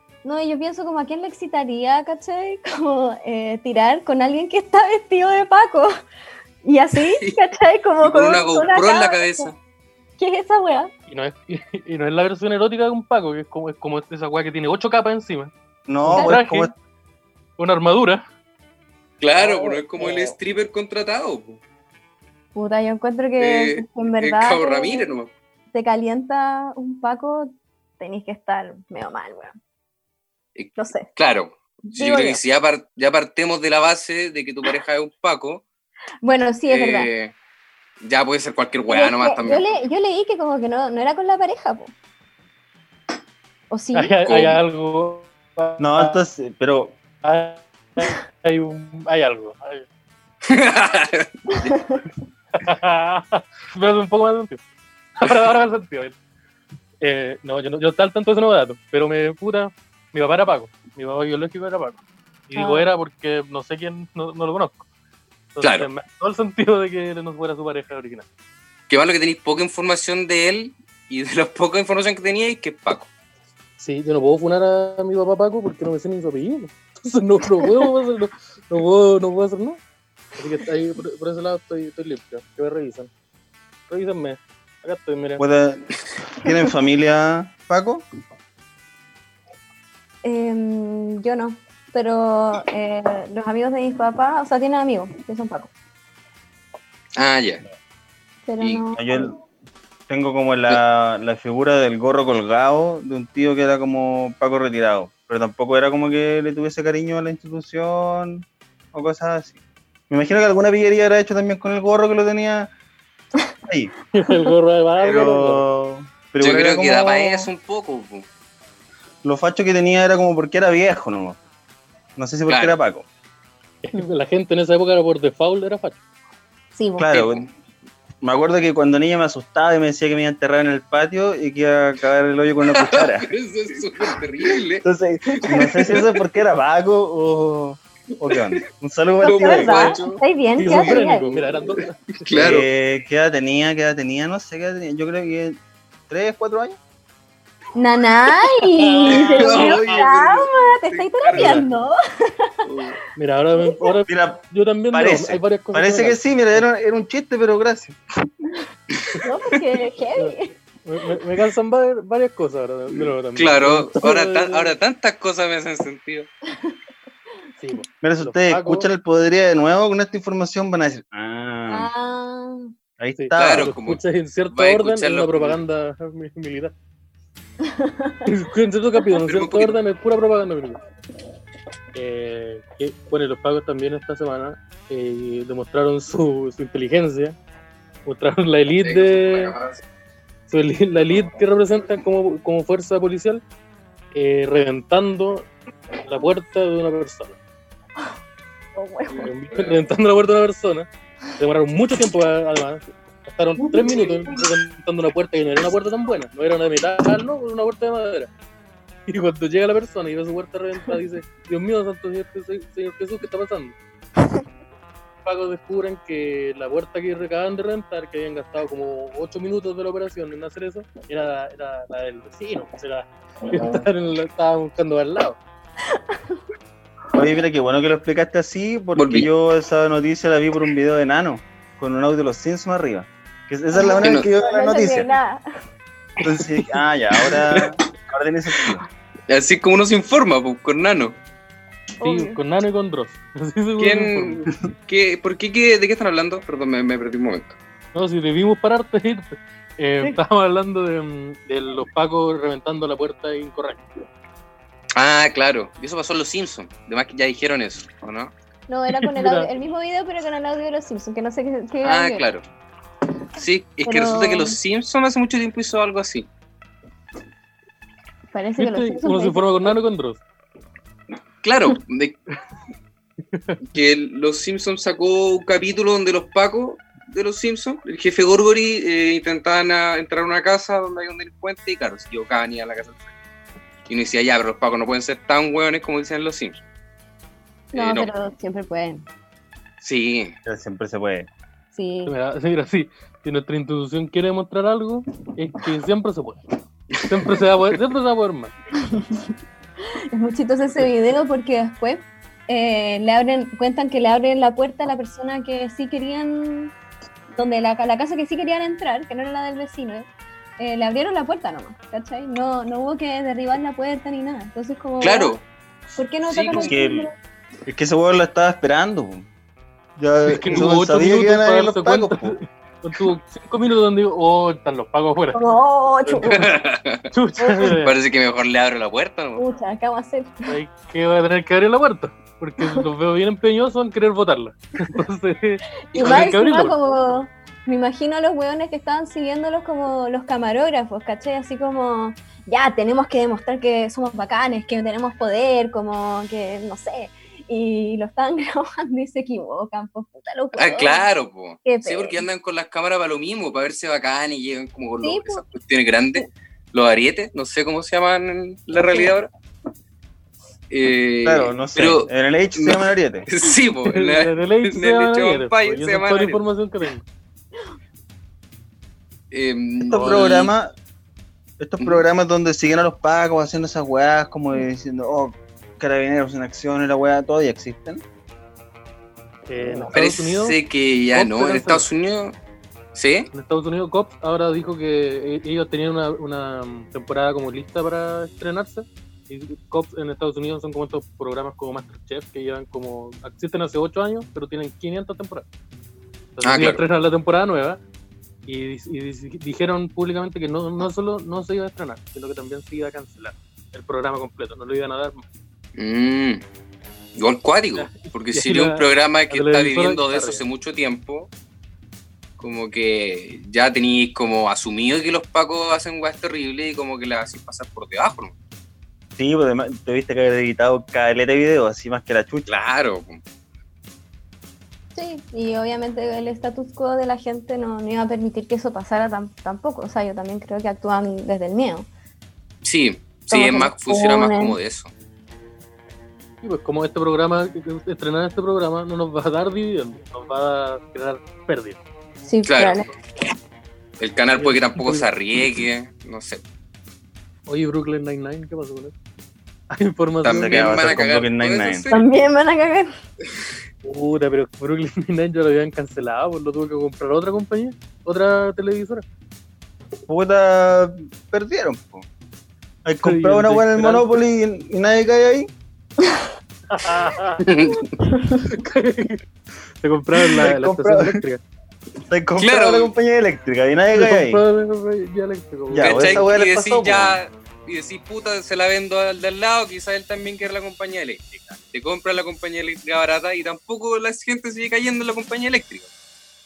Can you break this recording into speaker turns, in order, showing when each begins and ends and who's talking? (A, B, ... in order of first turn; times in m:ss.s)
0:00.2-0:05.9 A
0:06.6-0:09.5 A
0:07.0-0:07.4 B
0:08.0-0:09.6 B
0:10.2-0:10.9 A
0:11.1-0:15.5 C
0:15.9-0:16.7 D
0:16.0-0:16.7 C
0:16.1-0:16.4 A
0:17.6-0:18.2 C
0:19.2-0:21.6 B
0:19.4-0:20.4 A
0:22.5-0:25.1 A
0:23.4-0:25.3 B
0:25.7-0:29.5 A
0:30.6-0:35.6 B
0:30.8-0:31.1 A
0:31.8-0:32.4 A
0:36.2-0:37.1 A
0:36.7-0:37.3 B
0:38.0-0:39.6 B
0:38.9-0:41.9 A
0:43.7-0:44.1 A
0:43.9-0:46.2 C
0:44.2-0:44.6 B
0:45.8-0:47.0 D
0:47.2-0:49.8 C
0:50.4-0:51.7 B
0:51.5-0:52.0 A
0:52.5-0:54.6 C
0:55.2-0:56.2 C
0:57.0-1:04.8 C
1:02.6-1:02.9 A
1:05.5-1:08.2 C
1:05.6-1:05.9 B
1:08.9-1:13.1 B
1:13.8-1:19.8 C
1:20.4-1:23.1 C
1:23.9-1:25.4 C
1:25.4-1:28.0 D
1:30.2-1:35.7 A
1:37.2-1:37.6 B
1:38.5-1:39.3 A
1:39.0-1:39.3 D
1:40.1-1:49.6 D
1:50.1-1:52.7 D
1:54.1-1:55.6 C
1:55.0-1:57.5 D
1:56.4-1:58.3 B
1:59.2-2:01.4 D
2:02.2-2:03.0 D
2:02.5-2:02.8 B
2:03.8-2:06.0 C
2:06.7-2:07.2 A
2:07.0-2:07.4 D
2:07.1-2:07.4 B
2:08.2-2:13.3 D
2:12.7-2:14.8 B
2:14.8-2:19.9 D
2:15.4-2:16.2 B
2:15.4-2:15.8 A
2:18.3-2:18.6 B
2:19.2-2:21.4 A
2:19.2-2:21.0 B
2:19.7-2:22.6 C
2:22.2-2:22.6 B
2:22.3-2:25.6 D
2:26.1-2:26.8 D
2:27.8-2:32.5 A
2:28.5-2:30.0 C
2:29.0-2:31.6 B
2:31.3-2:31.6 C
2:32.6-2:33.0 B
2:33.2-2:36.6 C
2:33.5-2:34.0 A
2:34.1-2:38.3 D
2:38.9-2:39.2 B
2:39.2-2:40.6 A
2:40.2-2:44.7 C
2:42.9-2:46.3 B
2:47.6-2:48.9 C
2:48.0-2:51.9 D
2:51.7-2:52.7 A
2:53.0-2:53.7 D
2:53.2-2:56.7 C
2:53.3-2:55.6 B
2:57.6-2:58.2 A
2:58.2-3:00.8 C
2:59.2-2:59.8 B
3:01.9-3:07.4 C
3:08.0-3:09.5 C
3:08.8-3:09.8 B
3:10.5-3:13.4 C
3:14.1-3:15.5 C
3:16.0-3:17.4 C
3:18.8-3:19.3 A
3:19.2-3:20.9 C
3:19.5-3:19.8 B
3:21.4-3:28.3 C
3:23.6-3:24.4 A
3:29.1-3:33.7 C
3:35.2-3:45.4 C
3:45.9-3:46.4 A
3:47.1-3:55.1 D
3:49.0-3:49.3 B
3:53.7-3:55.4 A
3:54.0-3:54.3 B
3:56.2-3:58.8 D
3:56.2-3:56.6 B
3:57.2-3:57.7 B
3:59.3-4:01.2 B
4:02.0-4:02.4 A
4:02.0-4:04.5 C
4:03.8-4:07.6 B
4:07.9-4:13.8 C
4:15.0-4:18.3 B
4:18.7-4:22.2 A
4:19.0-4:19.5 C
4:21.8-4:22.4 B
4:23.4-4:26.3 B
4:23.8-4:24.6 A
4:28.3-4:29.7 A
4:28.6-4:30.2 C
4:31.4-4:32.2 B
4:33.3-4:33.6 C
4:33.7-4:43.1 B
4:43.9-4:46.6 B
4:47.7-4:49.0 A
4:47.7-4:48.1 B
4:49.8-4:50.3 B
4:50.4-4:51.3 D
4:51.7-4:52.1 A
4:52.0-4:56.4 C
4:56.9-4:57.4 B
4:57.0-4:58.5 C
4:58.9-4:59.3 A
5:00.1-5:06.7 A
5:07.4-5:10.1 A
5:10.6-5:15.4 A
5:15.0-5:15.4 B
5:16.0-5:17.2 A
5:16.2-5:16.8 B
5:16.5-5:17.1 D
5:17.6-5:19.3 D
5:20.0-5:22.4 D
5:20.3-5:26.3 C
5:25.3-5:26.6 A
5:26.2-5:27.1 B
5:27.1-5:27.9 C
5:27.7-5:29.4 B
5:29.4-5:30.5 A
5:30.5-5:36.8 C
5:35.9-5:51.1 A
5:35.9-5:36.4 B
5:50.5-5:59.3 B
5:51.6-5:52.2 A
5:55.0-5:55.4 A
5:58.7-5:59.1 A
6:00.7-6:06.4 B
6:01.2-6:03.3 D
6:03.8-6:07.0 C
6:09.3-6:10.5 B
6:09.8-6:10.7 D
6:11.6-6:18.0 D
6:19.5-6:20.6 C
6:19.6-6:19.9 A
6:19.9-6:22.3 B
6:21.1-6:21.8 C
6:22.9-6:23.3 B
6:23.3-6:35.4 C
6:36.4-6:37.8 C
6:36.4-6:36.8 B
6:38.4-6:45.2 C
6:45.8-6:46.4 B
6:47.2-6:51.3 B
6:47.8-6:50.4 C
6:52.4-6:58.3 B
6:59.2-7:02.6 D
7:02.5-7:03.2 B
7:04.9-7:11.9 A
7:12.6-7:14.9 B
7:13.3-7:14.6 A
7:16.4-7:21.8 C
7:22.2-7:22.9 A
7:22.4-7:22.8 B
7:24.0-7:26.4 B
7:24.4-7:25.1 C
7:27.5-7:28.9 C
7:29.8-7:31.0 C
7:30.2-7:32.0 B
7:30.2-7:31.9 D
7:31.9-7:32.9 A
7:33.8-7:39.0 C
7:40.1-7:42.0 D
7:42.8-7:45.5 D
7:43.0-7:44.2 C
7:46.7-7:47.4 C
7:47.4-7:48.0 B
7:48.1-7:48.4 A
7:48.4-7:49.3 C
7:49.8-7:51.4 C
7:50.3-7:51.2 D
7:52.1-7:54.4 D
7:52.4-7:52.9 B
7:53.9-7:56.3 C
7:55.7-7:57.2 D
7:55.8-8:05.9 B